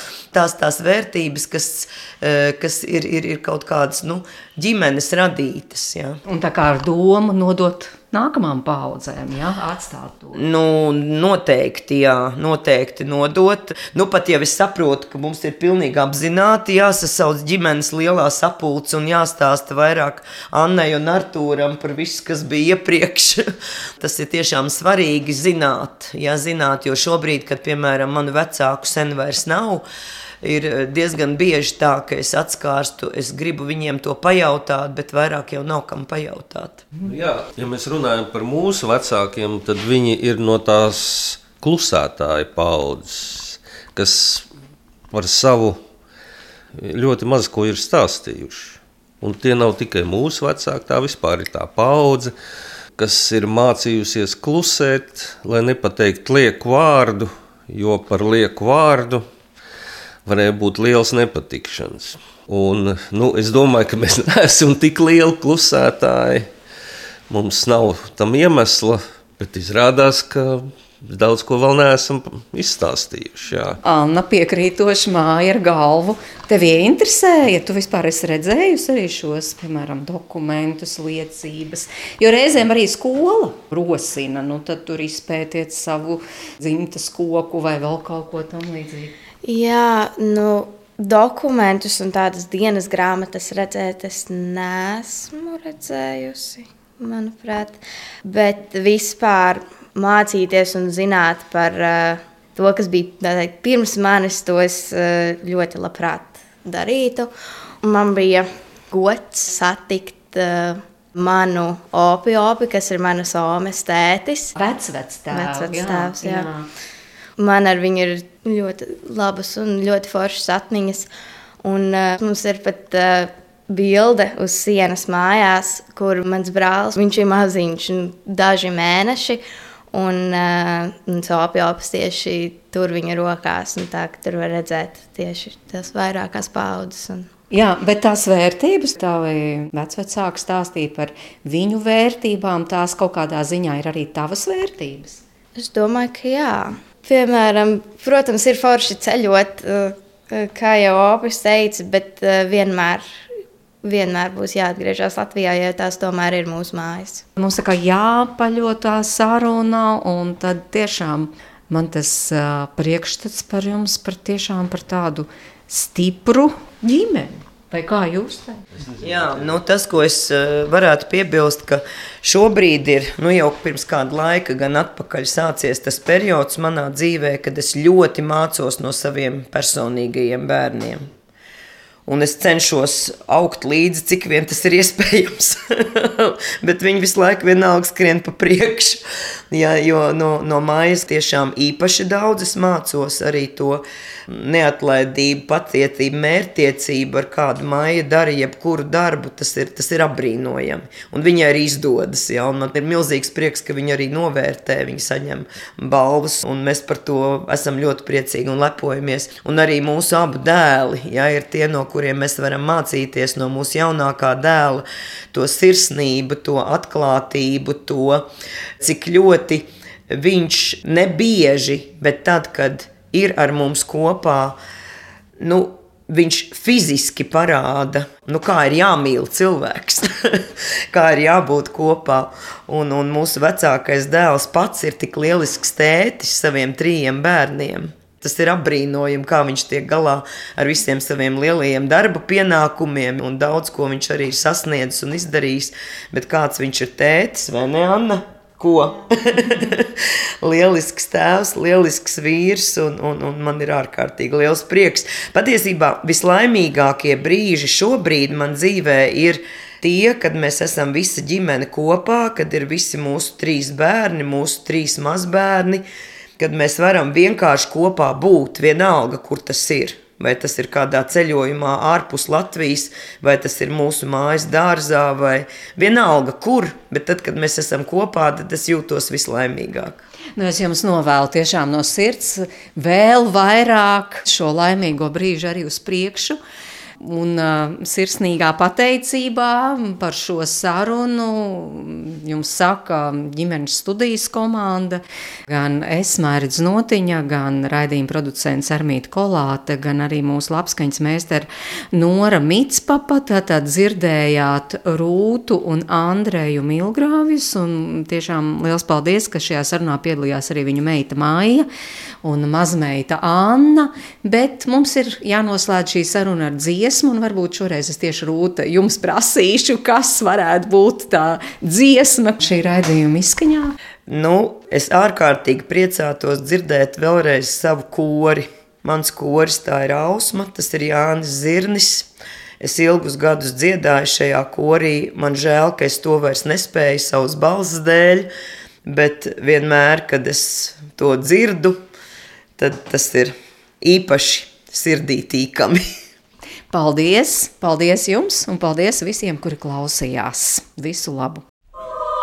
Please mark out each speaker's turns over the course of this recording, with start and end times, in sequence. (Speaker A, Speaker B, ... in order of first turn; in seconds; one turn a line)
Speaker A: 0.3-6.2
Speaker B: 6.2-10.4
Speaker A: 10.3-23.4
Speaker A: 24.0-29.8
Speaker A: 30.4-36.8
Speaker C: 37.0-44.5
Speaker C: 45.1-45.8
Speaker C: 46.8-52.3
Speaker C: 53.0-59.2
Speaker C: 60.2-66.5
Speaker C: 67.3-73.8
Speaker B: 73.8-89.1
Speaker D: 89.4-107.3
Speaker D: 107.8-114.5
Speaker B: 114.5-116.7
Speaker D: 115.3-116.5
Speaker D: 117.4-121.1
Speaker D: 121.6-129.4
Speaker D: 129.9-137.3
Speaker B: 137.5-145.2
Speaker D: 145.6-153.0
Speaker D: 153.8-157.2
Speaker B: 157.3-168.6
Speaker C: 168.8-169.5
Speaker A: 169.0-181.1
Speaker A: 182.1-218.2
Speaker A: 218.8-224.6
Speaker A: 225.4-265.8
Speaker A: 266.4-280.0
Speaker B: 280.4-286.4
Speaker B: 287.0-311.7
Speaker B: 312.2-323.7
Speaker A: 324.1-332.1
Speaker A: 332.6-338.3
Speaker A: 338.8-341.8
Speaker A: 342.6-345.8
Speaker B: 346.7-351.4